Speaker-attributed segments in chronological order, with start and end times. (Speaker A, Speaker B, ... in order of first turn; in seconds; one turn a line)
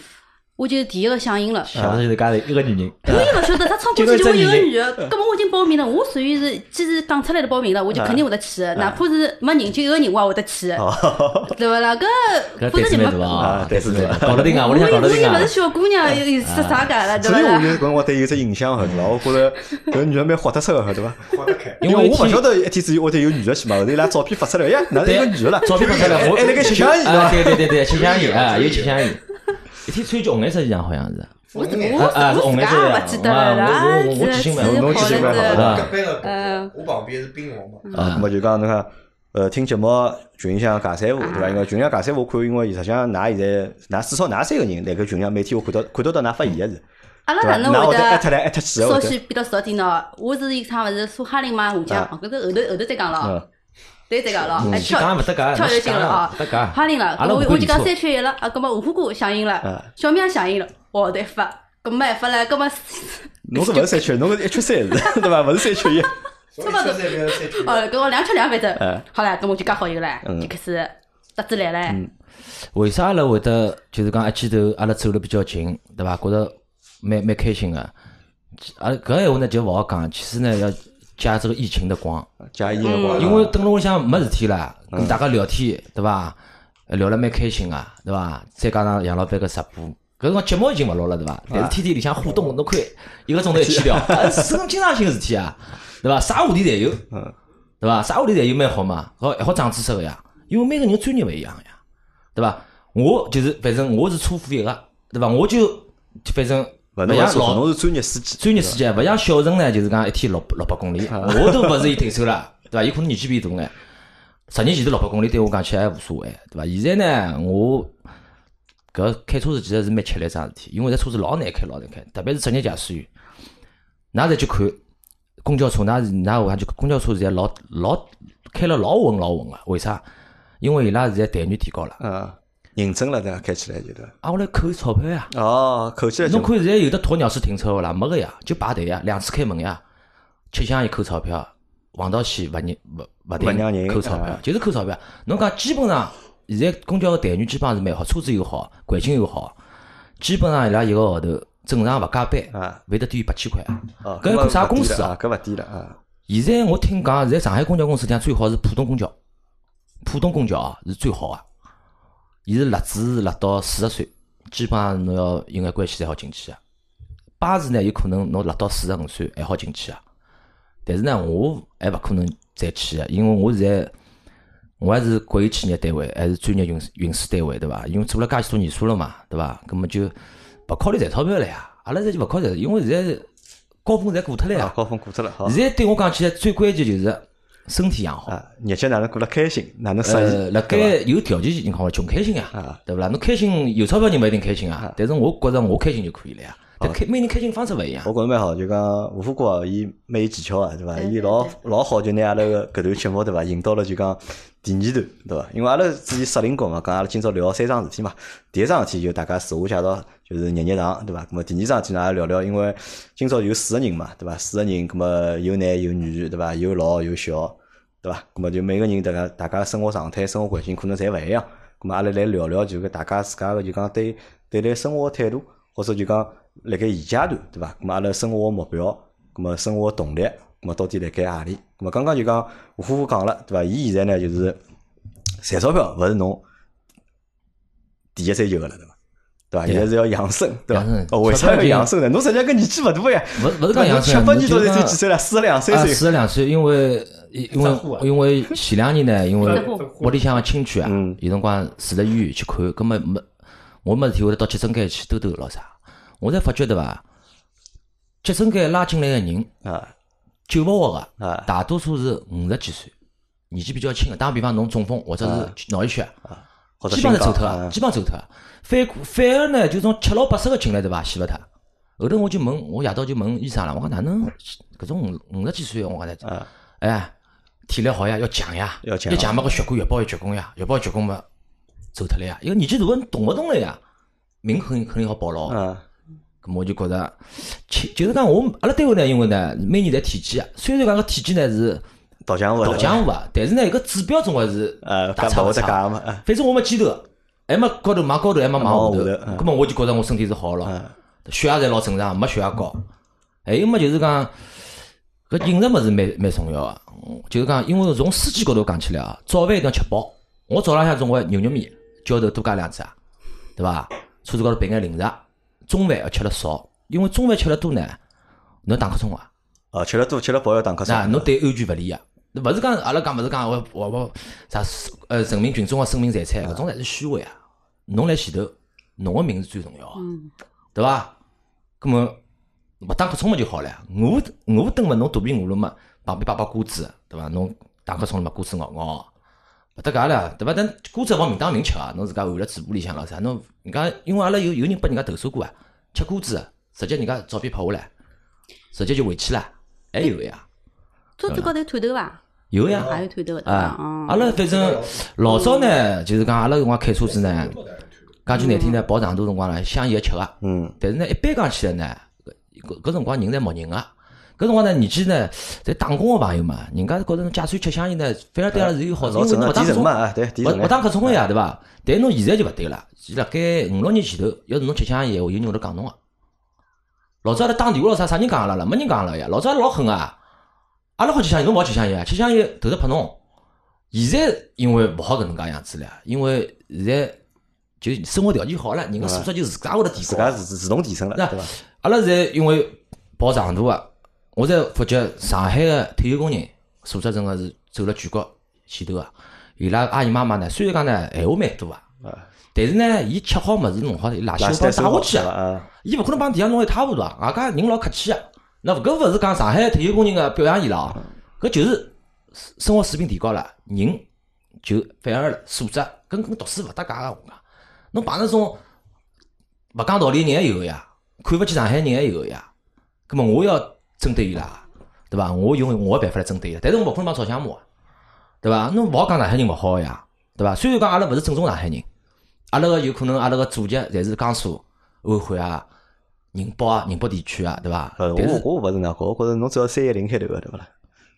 Speaker A: 0.6-1.7
Speaker B: 1.7-4.7
Speaker C: 1.8-2.0
Speaker A: 3.0-10.9
Speaker C: 3.1-3.3
Speaker C: 7.9-8.2
Speaker C: 8.8-9.0
Speaker C: 10.8-11.6
Speaker A: 11.5-13.6
Speaker B: 12.6-15.5
Speaker C: 13.4-14.6
Speaker A: 14.3-17.8
Speaker B: 16.4-16.9
Speaker C: 17.1-27.8
Speaker D: 21.3-21.8
Speaker B: 21.8-22.5
Speaker B: 25.0-31.4
Speaker D: 25.8-29.1
Speaker D: 31.5-32.4
Speaker A: 31.6-36.7
Speaker B: 31.9-36.0
Speaker C: 34.6-35.9
Speaker D: 34.7-37.9
Speaker A: 37.9-38.2
Speaker B: 37.9-38.3
Speaker C: 37.9-46.8
Speaker A: 41.2-41.6
Speaker A: 47.3-53.4
Speaker C: 47.4-49.2
Speaker A: 54.1-64.1
Speaker C: 54.6-55.0
Speaker B: 54.6-57.9
Speaker C: 63.5-66.2
Speaker A: 65.0-72.0
Speaker D: 66.5-67.9
Speaker C: 68.8-69.0
Speaker C: 70.2-70.5
Speaker B: 72.7-77.9
Speaker B: 78.6-82.3
Speaker C: 82.4-83.5
Speaker D: 82.8-83.1
Speaker A: 82.8-83.2
Speaker B: 83.2-86.4
Speaker C: 84.9-85.2
Speaker B: 86.9-97.1
Speaker C: 91.5-91.8
Speaker C: 93.5-94.6
Speaker B: 97.8-101.8
Speaker B: 102.3-107.8
Speaker C: 107.0-108.8
Speaker B: 108.4-113.7
Speaker C: 111.1-111.8
Speaker B: 114.5-117.9
Speaker B: 118.9-123.1
Speaker B: 124.1-124.8
Speaker B: 125.4-130.0
Speaker B: 130.6-132.0
Speaker C: 132.0-134.1
Speaker B: 134.2-135.3
Speaker C: 135.3-136.5
Speaker B: 136.2-139.8
Speaker B: 140.5-149.6
Speaker C: 143.4-144.4
Speaker B: 150.2-155.1
Speaker C: 152.5-152.8
Speaker C: 154.0-156.0
Speaker B: 156.3-159.1
Speaker B: 160.0-161.4
Speaker B: 162.5-166.6
Speaker B: 167.4-170.0
Speaker B: 170.9-173.9
Speaker B: 174.8-180.2
Speaker B: 180.7-183.3
Speaker B: 183.8-184.7
Speaker C: 184.5-185.6
Speaker B: 185.4-188.3
Speaker C: 188.3-191.0
Speaker B: 190.0-198.1
Speaker C: 192.5-192.8
Speaker C: 198.0-234.6
Speaker A: 201.0-201.5
Speaker C: 235.4-236.4
Speaker C: 238.2-238.9
Speaker C: 239.5-246.1
Speaker B: 240.7-241.9
Speaker B: 243.4-245.0
Speaker B: 245.7-253.2
Speaker D: 247.5-248.1
Speaker D: 249.4-250.3
Speaker A: 249.4-249.9
Speaker C: 250.8-251.2
Speaker B: 253.8-257.0
Speaker B: 258.2-259.5
Speaker C: 259.6-259.9
Speaker B: 260.5-262.9
Speaker C: 261.2-261.5
Speaker B: 263.5-266.1
Speaker C: 265.2-265.5
Speaker C: 266.3-267.8
Speaker B: 266.9-271.4
Speaker B: 272.0-276.3
Speaker B: 276.8-277.1
Speaker B: 277.7-281.2
Speaker C: 278.8-279.4
Speaker B: 281.9-283.8
Speaker B: 284.4-285.6
Speaker C: 285.5-285.8
Speaker B: 286.4-291.8
Speaker C: 292.3-293.1
Speaker B: 292.6-300.8
Speaker C: 294.8-296.2
Speaker C: 298.6-299.5
Speaker C: 300.6-300.9
Speaker B: 301.3-302.8
Speaker B: 303.5-304.3
Speaker B: 305.3-312.9
Speaker B: 313.6-318.0
Speaker B: 318.6-319.3
Speaker C: 319.7-321.3
Speaker B: 320.9-327.4
Speaker B: 327.9-330.0
Speaker A: 330.0-330.3
Speaker B: 330.8-331.1
Speaker B: 331.8-332.2
Speaker B: 332.8-339.1
Speaker B: 339.8-347.9
Speaker B: 348.7-350.4
Speaker A: 351.2-352.2
Speaker B: 352.5-357.6
Speaker A: 352.7-354.4
Speaker D: 354.3-355.0
Speaker A: 355.3-355.7
Speaker D: 357.1-357.8
Speaker B: 358.3-376.0
Speaker A: 358.3-358.8
Speaker C: 360.4-360.8
Speaker C: 368.5-371.2
Speaker B: 377.2-380.2
Speaker B: 381.0-383.2
Speaker B: 383.9-387.2
Speaker B: 387.8-390.4
Speaker C: 389.0-389.3
Speaker C: 390.0-391.5
Speaker B: 391.1-401.8
Speaker B: 402.6-414.0
Speaker C: 404.4-405.7
Speaker B: 414.6-417.4
Speaker B: 417.9-418.6
Speaker B: 419.7-422.5
Speaker B: 423.1-427.6
Speaker B: 428.4-431.9
Speaker B: 432.5-435.7
Speaker B: 436.3-438.4
Speaker C: 438.0-440.7